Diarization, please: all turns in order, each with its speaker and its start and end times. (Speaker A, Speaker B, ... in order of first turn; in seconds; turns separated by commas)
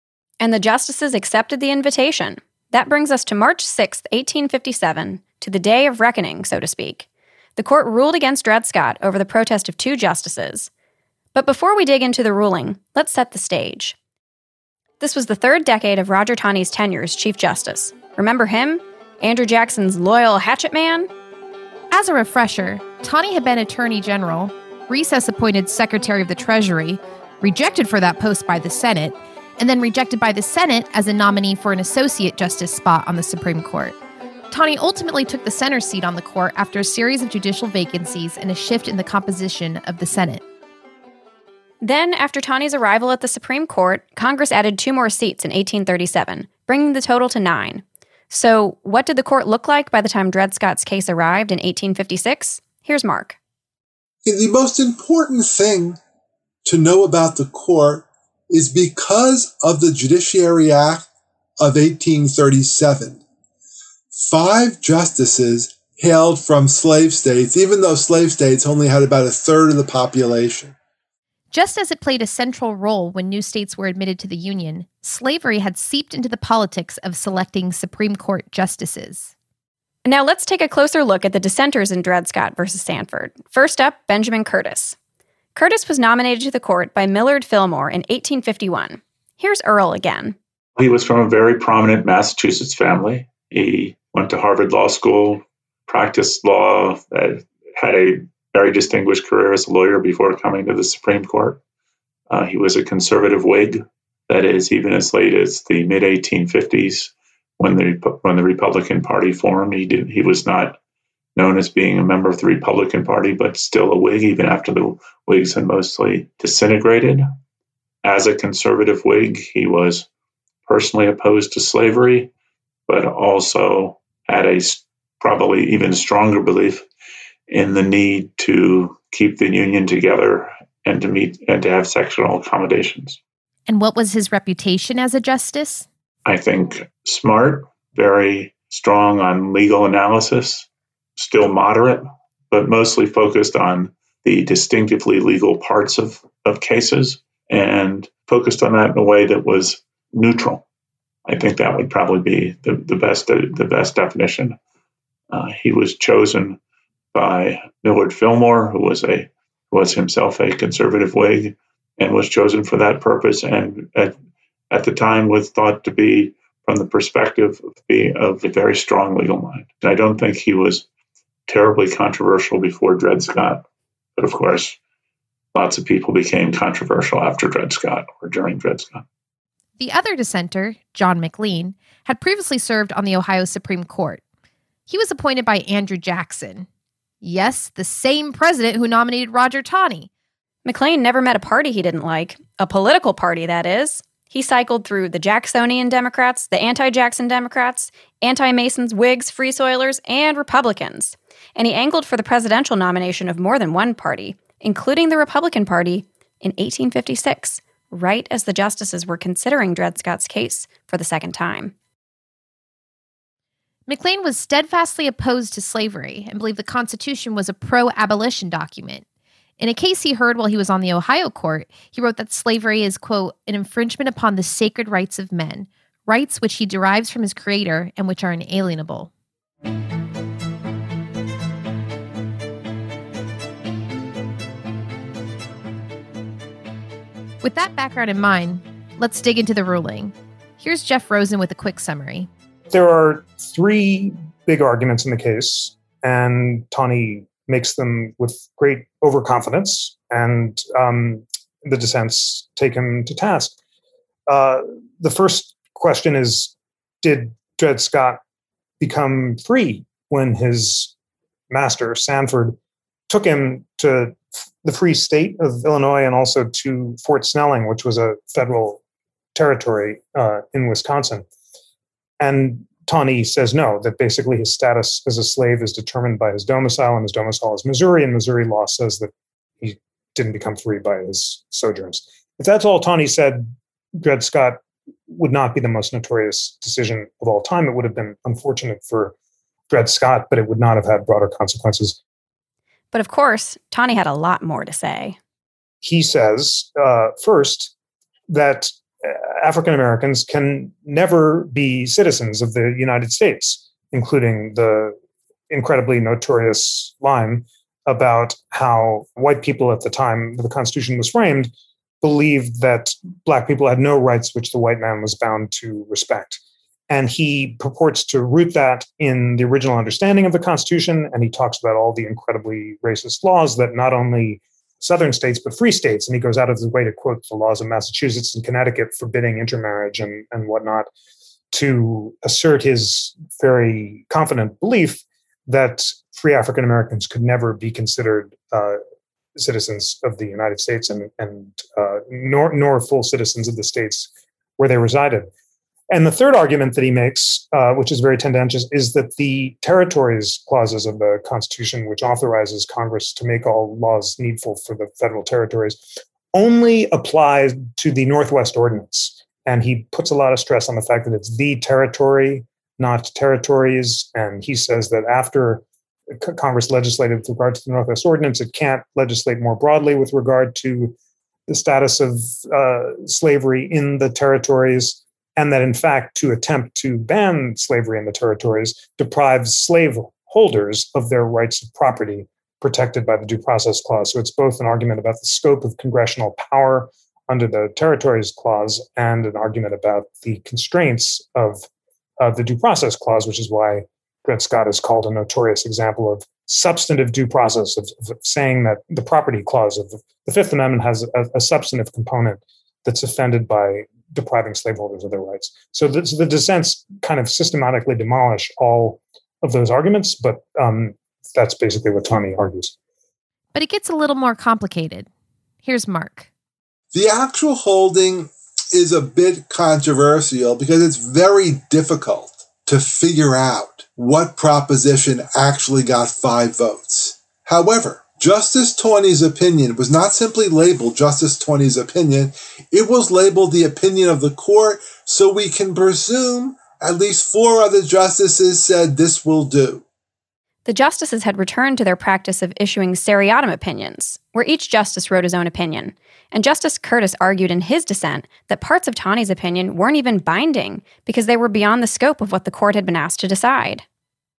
Speaker A: 0.4-7.1, Speaker A: 7.6-10.7, Speaker A: 11.3-14.0, Speaker A: 15.0-21.1, Speaker B: 21.9-34.0, Speaker B: 34.5-40.4, Speaker A: 41.8-53.4, Speaker C: 54.2-56.0, Speaker C: 56.6-61.1, Speaker C: 61.6-63.2, Speaker C: 64.2-70.8, Speaker B: 71.5-79.3, Speaker A: 80.1-85.0, Speaker A: 85.6-90.4, Speaker D: 90.8-101.6, Speaker D: 102.3-110.8, Speaker D: 111.4-117.2, Speaker D: 118.0-120.1, Speaker D: 120.7-122.3, Speaker D: 122.9-126.8, Speaker D: 127.5-133.2, Speaker B: 133.7-135.9, Speaker D: 136.3-150.6, Speaker D: 151.3-154.6, Speaker D: 155.3-156.6, Speaker D: 157.1-164.1, Speaker D: 164.7-170.9, Speaker D: 171.5-173.7, Speaker D: 174.2-174.8, Speaker D: 175.5-179.0, Speaker B: 179.8-184.2, Speaker B: 184.9-186.7, Speaker B: 187.2-190.1, Speaker A: 190.7-211.7, Speaker B: 213.9-219.1, Speaker B: 219.6-229.1, Speaker B: 237.4-242.3, Speaker E: 242.7-253.6, Speaker E: 254.3-258.2, Speaker E: 258.8-260.9, Speaker E: 261.5-262.6, Speaker E: 263.1-268.8, Speaker E: 269.4-271.3, Speaker E: 272.2-283.5, Speaker E: 284.0-289.1, Speaker E: 289.7-292.0, Speaker A: 292.9-295.2, Speaker E: 295.8-297.7, Speaker E: 298.3-304.9, Speaker E: 305.5-330.9, Speaker E: 331.5-338.8, Speaker E: 339.4-345.3, Speaker E: 345.9-365.6, Speaker E: 366.1-370.9, Speaker E: 371.5-391.7, Speaker E: 392.2-412.7, Speaker B: 413.6-415.1, Speaker B: 415.6-416.3, Speaker C: 416.9-439.8, Speaker A: 440.7-453.8